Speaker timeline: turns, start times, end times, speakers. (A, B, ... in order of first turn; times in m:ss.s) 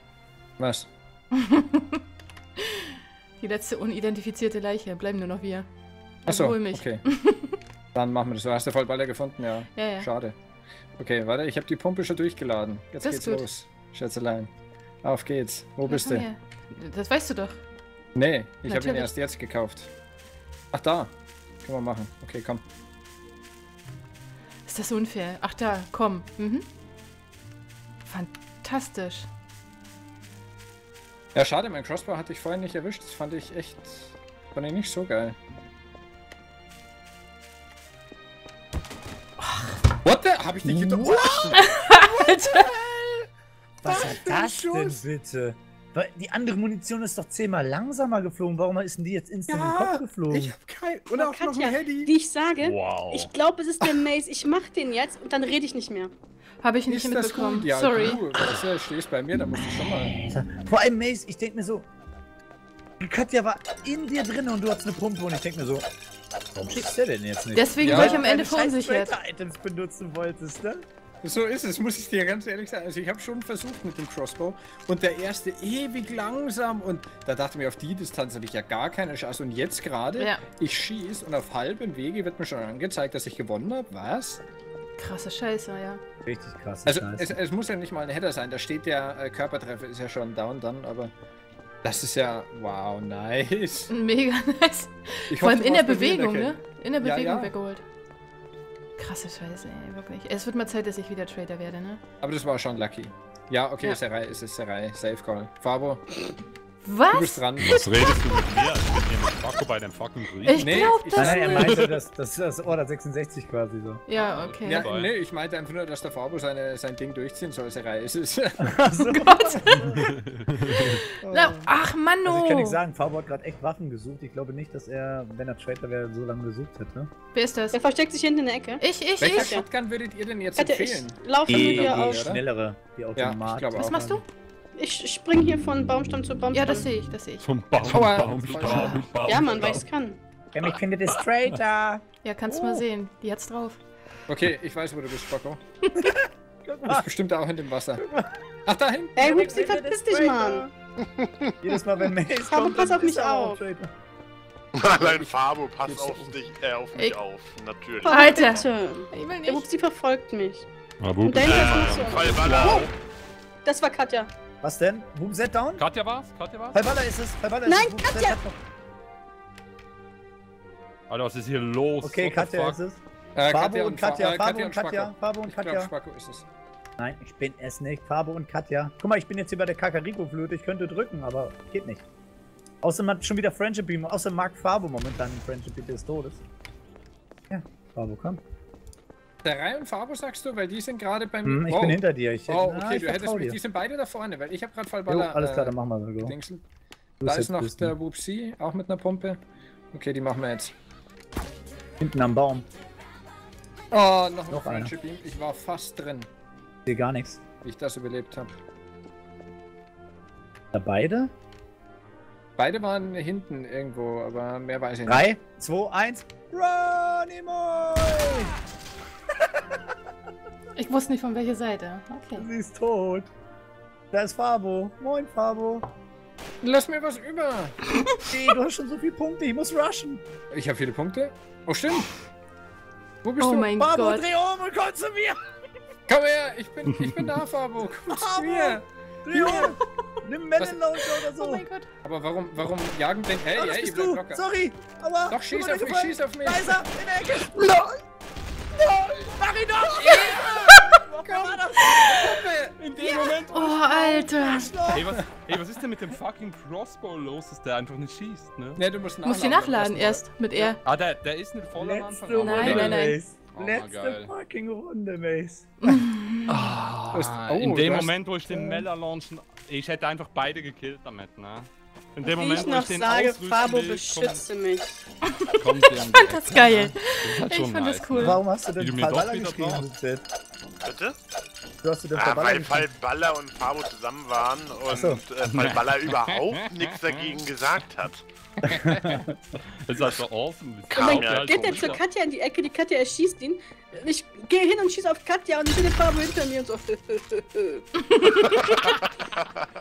0:00.6-0:00.9 A
0:01.3-0:02.0 B
0:03.4-0:05.7 B
0:06.2-0:07.6 B
0:06.3-0:07.1 A
0:07.9-0:10.4 A
0:09.7-0:10.1 B
0:11.0-0:14.5 A
0:13.0-0:13.5 B
0:15.0-0:16.2 A
0:15.8-0:17.6 B
0:18.2-0:19.9 A
0:18.6-0:19.1 B
0:20.7-0:22.6 A
0:24.6-0:26.6 B
0:28.0-0:29.3 B
0:31.3-0:35.4 A
0:39.4-0:39.7 B
0:40.0-0:43.3 A
0:40.6-0:41.6 C
0:41.6-0:42.7 B
0:43.8-0:50.5 C
0:43.8-0:45.0 A
0:49.5-0:52.1 A
0:51.1-0:56.1 D
0:52.6-0:53.3 E
0:56.6-0:58.2 B
0:56.9-1:00.1 A
1:00.3-1:01.8 C
1:03.0-1:05.9 C
1:06.5-1:10.8 C
1:07.5-1:09.1 B
1:07.8-1:08.2 A
1:11.2-1:24.4 A
1:20.2-1:20.4 B
1:25.0-1:26.0 B
1:26.2-1:27.4 C
1:26.8-1:31.1 A
1:31.8-1:33.9 A
1:33.9-1:37.8 B
1:35.3-1:37.5 A
1:39.0-1:42.0 B
1:42.2-1:46.2 A
1:46.8-1:48.1 B
1:47.1-1:47.9 A
1:47.6-1:51.0 E
1:50.4-1:51.8 B
1:50.6-1:51.9 A
1:51.2-1:54.0 C
1:54.1-1:54.9 B
1:54.1-1:55.1 E
1:54.6-1:59.8 A
1:58.6-2:00.1 C
1:59.2-2:00.0 B
2:00.1-2:01.0 E
2:00.8-2:02.8 B
2:01.3-2:01.6 A
2:02.2-2:07.1 C
2:07.3-2:07.8 B
2:07.7-2:09.6 D
2:08.8-2:09.6 B
2:09.2-2:12.4 A
2:10.6-2:12.2 D
2:11.5-2:14.2 C
2:13.2-2:14.0 A
2:13.8-2:14.2 B
2:14.8-2:16.9 D
2:16.5-2:17.5 B
2:17.4-2:19.7 E
2:17.8-2:19.8 A
2:19.2-2:20.2 D
2:20.5-2:22.8 C
2:22.2-2:23.8 B
2:24.3-2:25.6 A
2:26.0-2:27.1 C
2:26.9-2:28.0 A
2:28.0-2:28.4 C
2:28.6-2:29.4 A
2:29.2-2:30.7 D
2:29.2-2:30.7 C
2:31.0-2:31.5 F
2:31.6-2:33.9 C
2:32.4-2:33.6 D
2:34.7-2:38.6 F
2:34.8-2:36.4 A
2:36.9-2:37.2 B
2:38.0-2:40.6 D
2:38.0-2:39.6 B
2:41.0-2:42.9 E
2:41.2-2:42.9 D
2:41.4-2:42.9 F
2:43.6-2:44.3 D
2:44.6-2:45.8 C
2:45.8-2:46.8 E
2:46.7-2:48.6 C
2:47.6-2:48.4 D
2:51.1-2:52.8 E
2:52.0-2:55.9 C
2:53.4-2:56.4 A
2:57.0-3:02.0 C
3:02.8-3:06.4 C
3:07.5-3:08.4 C
3:09.4-3:16.6 A
3:11.4-3:13.6 C
3:15.1-3:16.4 C
3:17.2-3:17.9 C
3:17.2-3:19.4 A
3:19.9-3:20.7 A
3:22.0-3:22.7 C
3:23.9-3:26.3 A
3:24.5-3:24.9 C
3:26.8-3:27.4 C
3:27.6-3:28.6 A
3:30.7-3:31.3 C
3:32.6-3:35.3 A
3:35.0-3:38.5 C
3:39.4-3:39.8 C
3:40.7-3:42.5 B
3:42.4-3:43.3 C
3:44.1-3:45.9 C
3:46.6-3:47.9 A
3:48.2-3:50.2 C
3:50.5-3:52.1 A
3:53.2-3:53.7 A
3:53.4-3:54.3 B
3:53.8-3:55.4 C
3:56.1-3:59.8 A
3:56.9-3:57.2 E
3:57.8-4:01.6 C
4:01.3-4:01.9 B
4:02.0-4:04.4 A
4:03.5-4:08.0 C
4:05.3-4:06.8 A
4:09.0-4:11.8 C
4:09.9-4:13.5 A
4:11.8-4:12.2 B
4:13.0-4:13.4 E
4:13.0-4:15.1 C
4:13.5-4:14.7 B
4:14.9-4:18.8 E
4:18.8-4:20.7 A
4:19.2-4:20.8 B
4:20.8-4:24.3 E
4:21.8-4:25.7 C
4:22.4-4:23.2 B
4:22.6-4:22.9 A
4:25.8-4:26.6 B
4:26.5-4:34.4 E
4:27.1-4:28.1 A
4:28.5-4:28.8 C
4:32.2-4:35.0 D
4:35.5-4:39.9 E
4:36.1-4:38.4 B
4:38.2-4:40.2 C
4:40.8-4:41.2 F
4:41.8-4:42.9 C
4:42.1-4:48.2 F
4:44.9-4:45.2 C
4:45.4-4:47.7 E
4:48.6-4:52.0 E
4:48.6-4:49.3 C
4:48.7-4:49.2 A
4:50.9-4:52.0 F
4:50.9-4:57.8 D
4:58.0-4:59.0 B
4:58.7-4:59.6 F